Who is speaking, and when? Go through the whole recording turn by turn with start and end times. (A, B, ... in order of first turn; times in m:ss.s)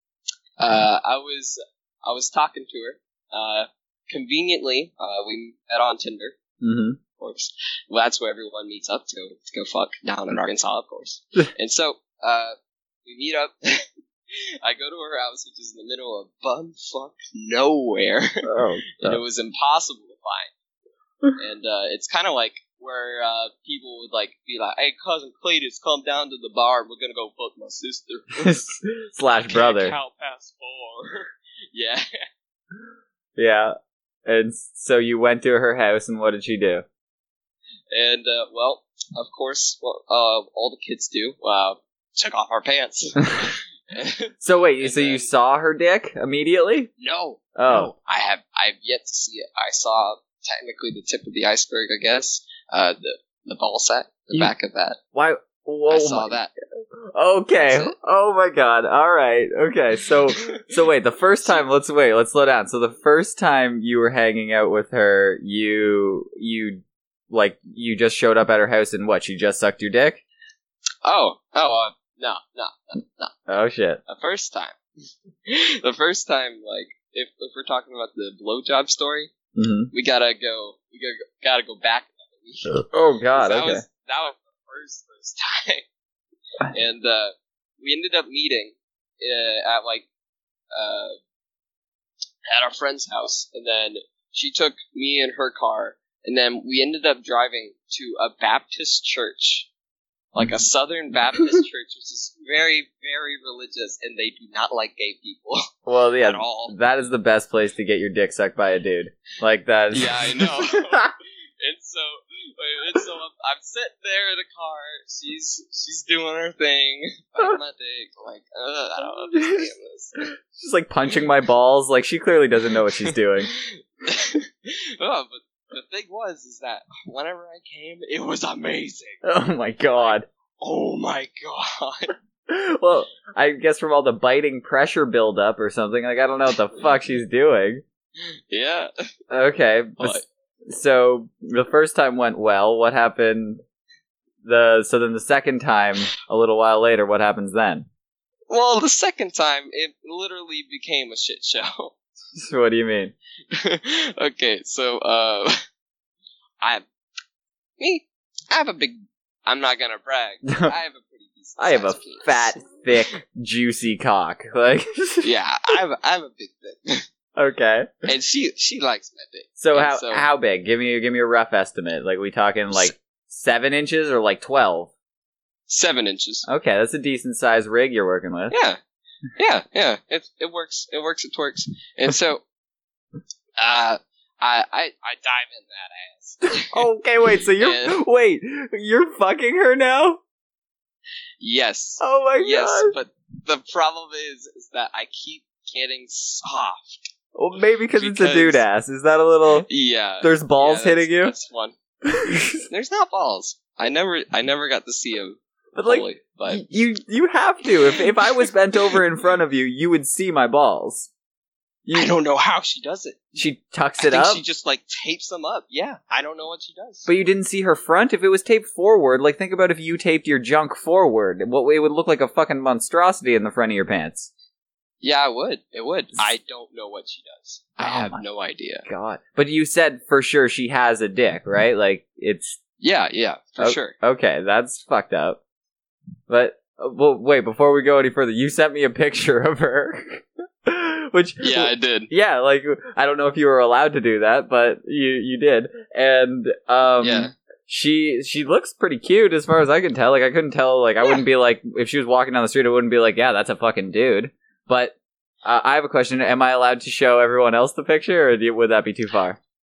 0:00.6-0:06.4 A
0:06.6-0:07.0 B
0:07.2-0:13.8 A
0:14.6-0:20.5 A
0:18.4-0:19.2 B
0:21.4-0:28.7 A
0:28.4-0:30.0 B
0:29.5-0:32.0 A
0:33.4-0:33.7 B
0:34.3-0:36.8 B
0:37.9-0:45.3 A
0:44.4-0:46.9 B
0:47.0-0:55.0 A
0:47.6-0:47.9 B
0:55.2-0:56.4 B
0:55.9-0:56.5 A
0:57.2-1:10.2 B
0:57.6-0:57.9 A
1:00.3-1:00.7 A
1:11.0-1:13.4 A
1:13.5-1:14.0 B
1:14.1-1:14.8 A
1:15.5-1:19.3 A
1:19.6-1:19.9 B
1:19.9-1:22.8 A
1:22.8-1:23.8 B
1:23.4-1:25.9 A
1:26.7-1:30.1 A
1:30.7-1:31.2 A
1:32.5-1:39.7 A
1:40.3-1:45.7 A
1:45.9-1:51.0 B
1:46.2-1:46.7 A
1:49.9-2:00.3 A
1:59.0-1:59.7 B
2:00.6-2:03.5 B
2:03.0-2:09.2 A
2:09.2-2:10.3 B
2:10.0-2:12.1 A
2:12.5-2:17.8 B
2:18.5-2:18.9 A
2:19.3-2:23.6 B
2:20.0-2:20.2 A
2:24.4-2:27.9 B
2:28.5-2:31.9 A
2:32.4-2:33.1 B
2:33.5-2:35.6 A
2:37.8-2:43.1 A
2:41.6-2:45.3 B
2:45.2-2:47.0 A
2:47.4-2:48.0 B
2:48.1-2:50.3 A
2:49.6-2:54.9 B
2:55.7-2:56.4 A
2:56.5-2:58.6 B
2:58.5-2:58.8 A
2:59.4-3:02.4 A
3:03.6-3:06.8 A
3:06.7-3:10.2 B
3:07.6-3:08.0 A
3:11.4-3:17.0 A
3:12.0-3:12.9 B
3:17.4-3:19.7 B
3:18.0-3:18.6 A
3:19.7-3:21.8 A
3:20.2-3:21.3 B
3:22.0-3:22.6 B
3:22.7-3:26.7 A
3:25.8-3:31.1 B
3:27.9-3:29.0 A
3:31.9-3:32.1 B
3:31.9-3:33.2 A
3:33.4-3:34.4 B
3:34.0-3:37.1 A
3:37.1-3:44.3 B
3:45.0-3:48.8 A
3:47.8-3:48.2 B
3:48.9-3:52.6 B
3:52.8-3:54.0 A
3:53.6-3:55.4 B
3:56.3-4:19.4 B
4:01.4-4:02.1 A
4:07.0-4:07.3 A